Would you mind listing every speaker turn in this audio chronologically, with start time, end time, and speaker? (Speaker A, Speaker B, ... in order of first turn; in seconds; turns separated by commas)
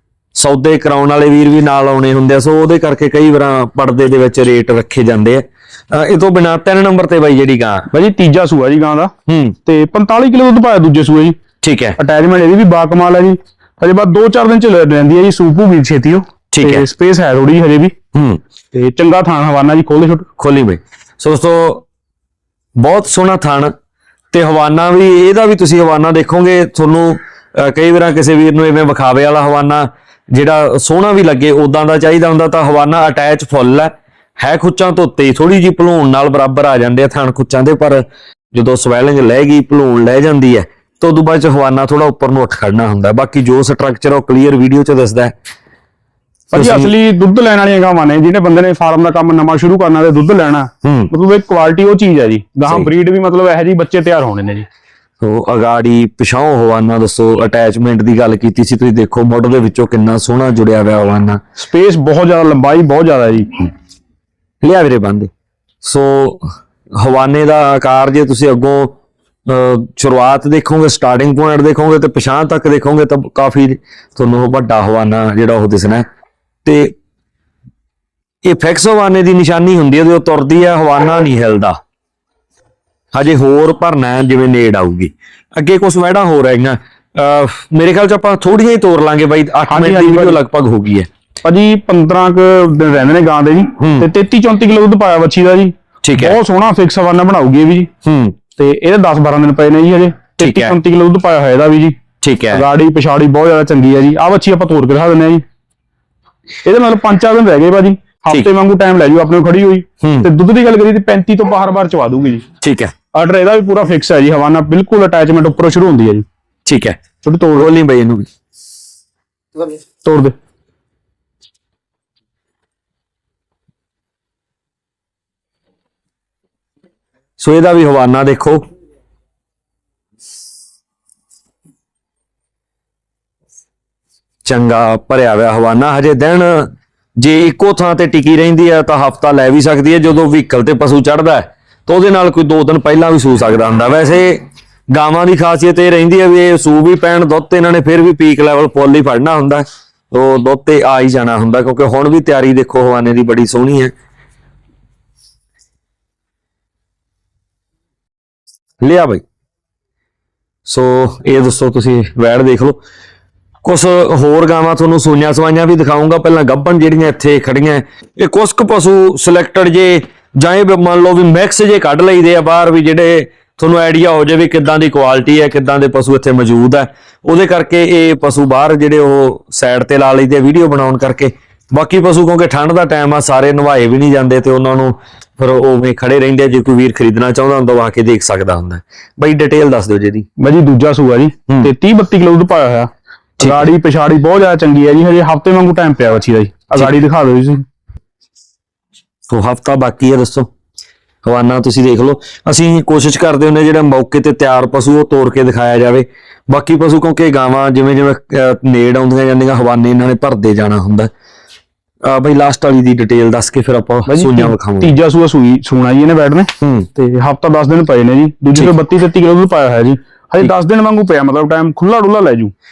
Speaker A: 0.3-7.8, Speaker B: 7.9-9.1, Speaker A: 9.3-9.6, Speaker B: 9.7-11.4, Speaker A: 11.6-12.0, Speaker B: 12.0-17.9, Speaker A: 16.5-16.9, Speaker A: 18.1-18.4, Speaker B: 18.7-20.3, Speaker A: 20.4-21.8, Speaker A: 22.8-23.7, Speaker A: 24.3-45.3, Speaker B: 46.5-54.6, Speaker A: 46.5-46.9, Speaker A: 50.8-51.1, Speaker A: 55.2-61.4, Speaker B: 61.6-63.7, Speaker A: 64.6-65.3, Speaker A: 65.8-69.0, Speaker A: 69.5-76.0, Speaker A: 76.6-76.9, Speaker A: 78.4-81.8, Speaker A: 83.1-91.1, Speaker B: 89.7-90.4, Speaker B: 91.4-97.9, Speaker A: 93.8-94.1, Speaker A: 96.0-96.4, Speaker A: 98.0-98.3, Speaker B: 98.6-102.0, Speaker A: 100.4-100.8, Speaker A: 102.2-102.6, Speaker B: 102.5-105.4, Speaker B: 106.6-112.4, Speaker A: 110.0-110.3, Speaker A: 112.6-112.9, Speaker B: 113.1-116.2, Speaker A: 116.7-117.0, Speaker B: 117.2-117.7, Speaker A: 117.5-118.2, Speaker B: 120.0-120.3, Speaker A: 127.4-128.6, Speaker A: 134.4-153.9, Speaker A: 158.8-159.2, Speaker A: 160.7-162.8, Speaker A: 163.6-190.3, Speaker B: 190.4-192.9, Speaker A: 193.4-193.7, Speaker B: 193.4-197.6, Speaker A: 199.3-200.5, Speaker A: 201.2-211.1, Speaker A: 212.0-214.9, Speaker B: 214.1-222.5, Speaker A: 216.6-216.9